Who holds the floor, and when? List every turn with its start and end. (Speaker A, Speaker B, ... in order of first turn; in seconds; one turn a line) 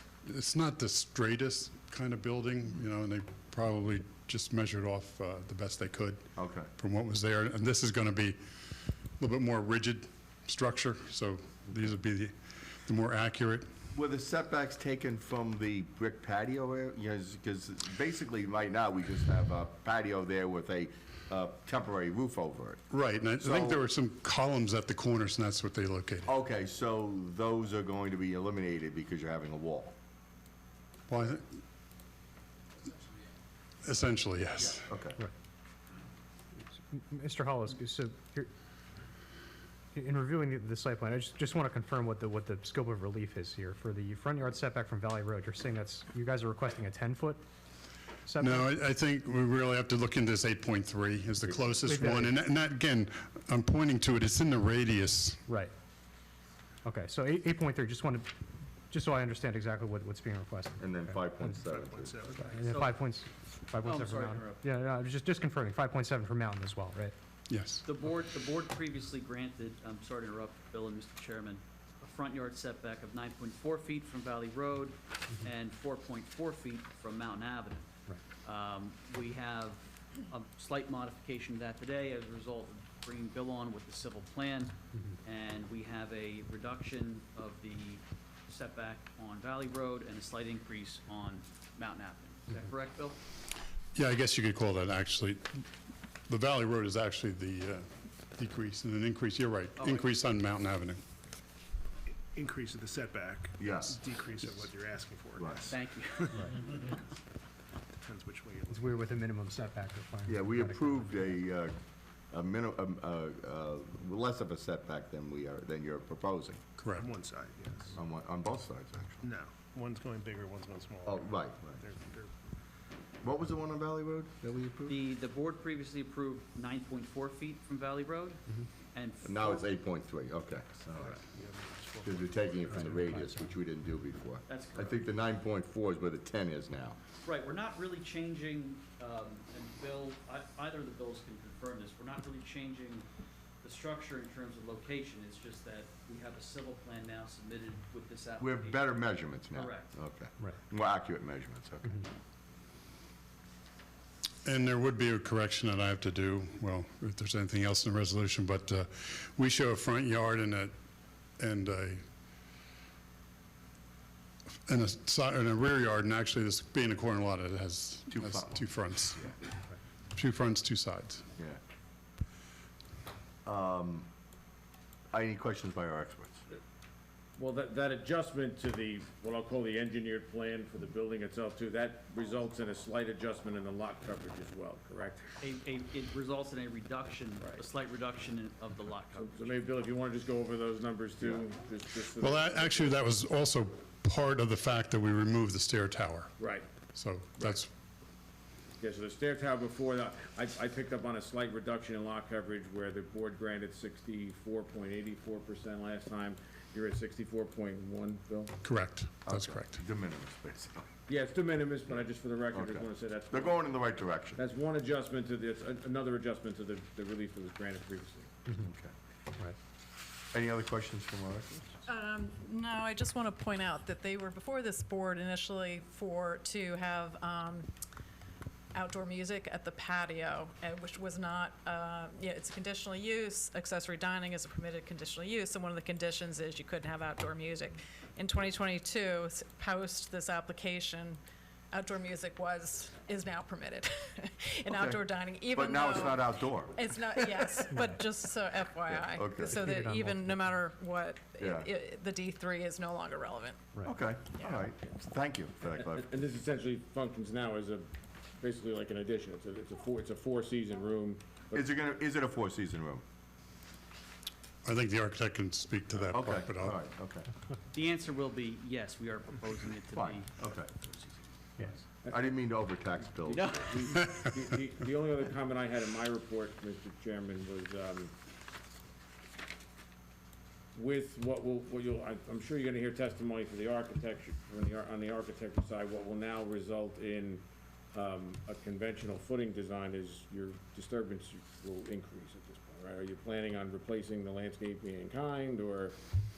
Speaker A: 0.2-6.2
Speaker B: 6.3-6.7
Speaker A: 6.8-8.4
Speaker A: 9.2-13.7
Speaker B: 13.9-22.8
Speaker A: 22.9-26.3
Speaker B: 23.4-23.8
Speaker B: 26.2-29.9
Speaker A: 31.1-31.4
Speaker A: 33.8-34.9
Speaker B: 34.6-35.2
Speaker C: 36.6-38.5
Speaker C: 39.9-47.4
Speaker C: 48.2-48.7
Speaker A: 48.4-55.4
Speaker C: 51.9-52.4
Speaker C: 55.5-55.7
Speaker C: 56.8-58.3
Speaker C: 58.9-61.6
Speaker B: 60.8-62.5
Speaker D: 61.4-62.7
Speaker C: 62.5-67.1
Speaker E: 62.7-63.0
Speaker E: 63.7-64.6
Speaker A: 67.5-67.8
Speaker E: 67.8-77.9
Speaker E: 78.4-93.2
Speaker A: 93.9-95.7
Speaker A: 96.3-101.0
Speaker E: 99.8-100.1
Speaker D: 102.2-107.0
Speaker B: 103.6-104.0
Speaker B: 105.4-105.7
Speaker E: 105.7-106.7
Speaker D: 108.0-109.2
Speaker C: 108.7-111.3
Speaker B: 110.3-111.8
Speaker B: 112.3-116.6
Speaker A: 116.8-117.1
Speaker D: 116.9-118.0
Speaker B: 118.0-119.3
Speaker D: 119.2-122.3
Speaker B: 121.0-121.8
Speaker B: 123.2-125.0
Speaker E: 124.9-128.4
Speaker E: 128.9-129.7
Speaker B: 129.2-131.2
Speaker D: 130.9-133.3
Speaker B: 132.0-137.0
Speaker E: 134.5-135.0
Speaker E: 137.2-143.1
Speaker E: 143.6-148.9
Speaker B: 148.4-152.0
Speaker E: 149.5-149.9
Speaker A: 154.4-160.7
Speaker A: 161.4-162.0
Speaker A: 164.7-169.3
Speaker B: 168.1-168.6
Speaker A: 170.1-171.3
Speaker B: 173.4-174.1
Speaker B: 175.1-176.4
Speaker F: 177.4-185.2
Speaker E: 185.4-189.6
Speaker F: 189.2-192.7
Speaker A: 192.2-196.3
Speaker A: 196.9-197.7
Speaker F: 199.0-208.5
Speaker A: 208.6-209.8
Speaker B: 209.2-210.9
Speaker F: 211.1-213.4
Speaker B: 212.5-214.4
Speaker F: 214.4-218.3
Speaker B: 218.6-218.9
Speaker B: 220.3-221.6
Speaker G: 221.8-227.7
Speaker G: 228.7-241.2
Speaker G: 241.7-253.7
Speaker B: 244.7-247.6
Speaker B: 248.9-249.6
Speaker C: 249.4-250.6
Speaker B: 251.4-251.7
Speaker C: 253.7-254.1
Speaker B: 253.8-256.0
Speaker G: 254.4-254.6
Speaker F: 256.1-257.9
Speaker F: 258.4-261.4
Speaker B: 261.5-263.0
Speaker A: 264.6-266.8
Speaker B: 266.1-267.3
Speaker E: 267.7-271.1
Speaker B: 269.9-270.7
Speaker B: 272.1-273.6
Speaker E: 273.3-274.2
Speaker F: 273.8-278.1
Speaker F: 280.7-287.4
Speaker F: 287.9-295.9